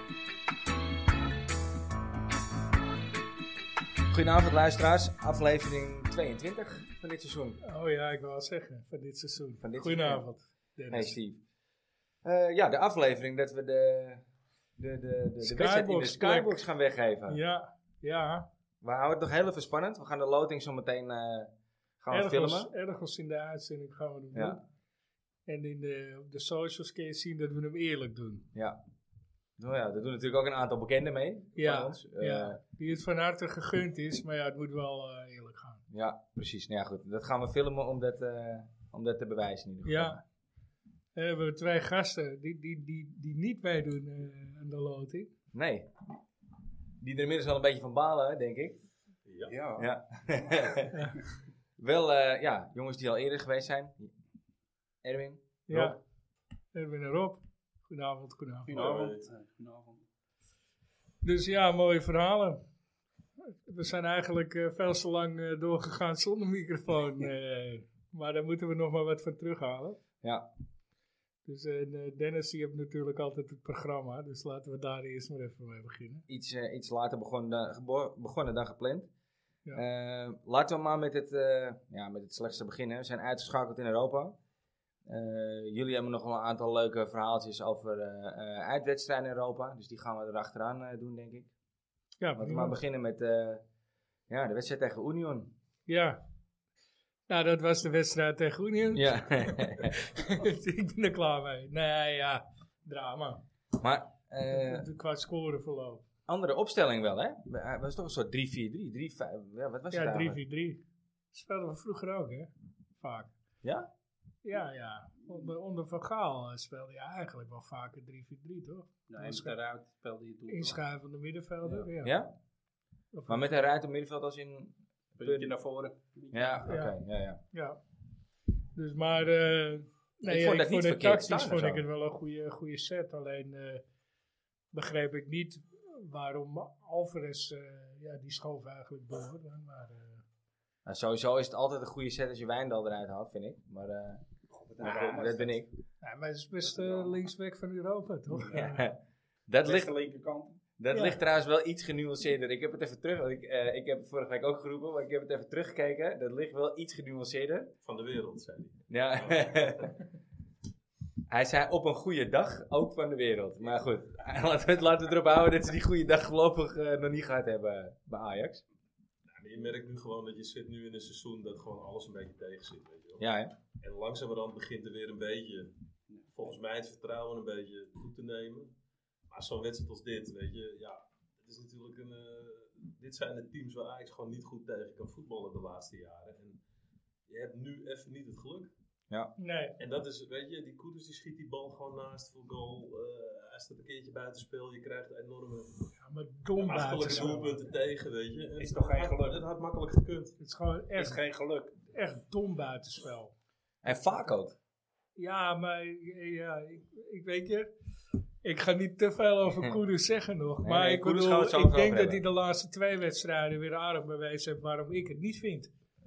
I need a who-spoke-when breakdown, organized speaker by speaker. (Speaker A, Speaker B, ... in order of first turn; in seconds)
Speaker A: 4.1-7.6, 9.6-10.2, 10.9-11.4, 12.2-14.2, 14.8-17.4, 18.8-22.7, 29.6-32.6, 35.9-40.2, 45.5-45.9, 47.0-48.8, 49.8-51.1, 51.8-54.1, 55.0-56.0, 70.2-70.5, 76.3-79.1, 79.7-84.4, 85.1-91.5, 92.4-93.6, 94.3-95.5, 98.9-100.0, 103.8-104.9, 106.3-110.4, 113.6-113.9, 122.0-122.3, 123.3-125.5, 126.3-127.4, 130.2-131.8, 140.8-144.2, 144.8-145.7, 148.5-149.9, 150.8-157.7, 158.9-160.0, 161.3-168.6, 173.2-173.5, 203.8-204.6, 209.5-209.8, 210.6-212.2
Speaker B: 7.6-11.2, 15.4-16.6, 17.3-18.5, 22.1-24.6, 25.5-28.5, 31.6-35.8, 39.9-40.2, 41.2-45.3, 55.7-56.0, 56.7-58.7, 61.2-62.6, 63.7-70.0, 71.5-76.2, 92.2-92.8, 95.9-96.2, 97.3-103.4, 104.5-106.0, 109.9-113.3, 114.4-119.5, 120.5-122.2, 123.1-123.6, 126.7-127.0, 127.5-127.8, 128.8-133.8, 134.7-140.2, 146.0-148.8, 150.9-151.2, 189.4-189.8, 196.0-197.7, 200.4-201.2, 201.8-203.3, 205.2-207.7, 208.4-215.7
Speaker C: 49.3-49.5, 58.7-59.3, 157.8-159.9, 169.3-173.2, 173.8-175.7, 176.3-178.7, 179.3-186.6, 187.3-188.7, 189.8-195.8, 196.6-200.4
Speaker D: 49.5-49.9, 58.7-60.0, 119.1-120.8, 125.2-126.6, 144.5-145.6, 146.6-147.2, 148.3-148.8, 149.6-150.6, 198.6-199.4, 201.0-201.8